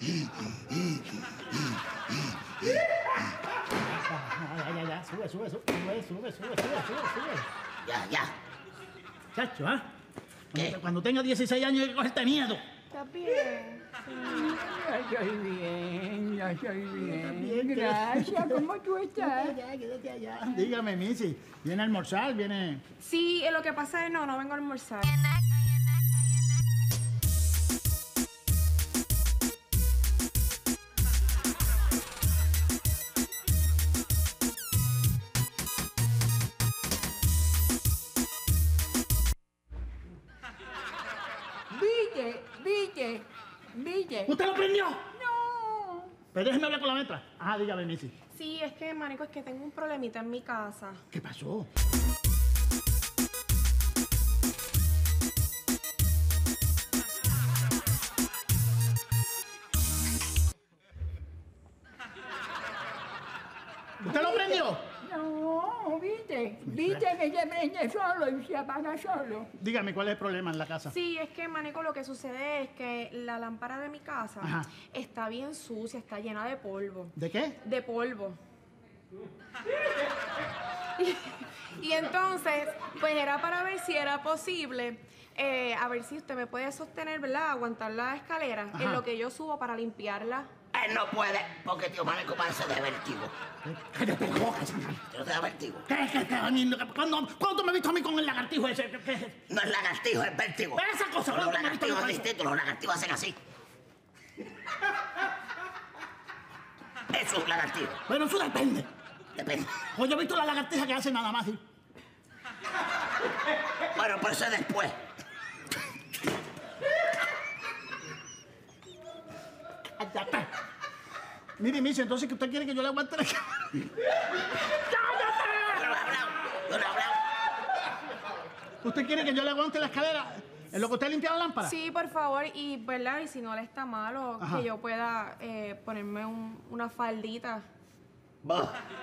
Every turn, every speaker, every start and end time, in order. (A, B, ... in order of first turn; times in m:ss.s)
0:03.9-0:07.5 A
0:07.8-0:08.3 B
0:09.3-0:09.8 A
0:10.5-0:12.6 A
0:12.9-0:14.5 C
0:14.1-0:19.6 D
0:16.9-0:18.6 A
0:19.2-0:22.8 A
0:23.0-0:25.2 C
0:41.7-0:44.3 D
0:44.3-0:45.0 A
0:45.2-0:46.1 D
0:46.3-0:48.1 A
0:48.3-0:51.0 C
0:51.1-0:51.7 A
1:04.0-1:04.8 A
1:04.0-1:09.5 D
1:06.6-1:07.1 A
1:09.6-1:10.9 A
1:10.9-1:18.4 C
1:14.4-1:14.7 A
1:17.2-1:17.6 A
1:21.0-1:30.5 C
1:28.7-1:29.0 A
1:30.7-1:33.3 B
1:33.6-1:35.0 A
1:35.1-1:35.8 B
1:35.9-1:39.4 A
1:39.5-1:43.4 B
1:40.7-1:42.3 A
1:47.1-1:48.0 B
1:48.1-1:48.9 A
1:49.4-1:49.8 B
1:49.9-1:51.6 A
1:53.9-1:55.0 B
2:00.0-2:00.5 A
2:01.6-2:03.9 A
2:04.6-2:05.9 A
2:05.7-2:07.2 B
2:08.8-2:11.7 A
2:11.6-2:17.6 C
2:14.4-2:14.6 A
2:18.4-2:18.8 B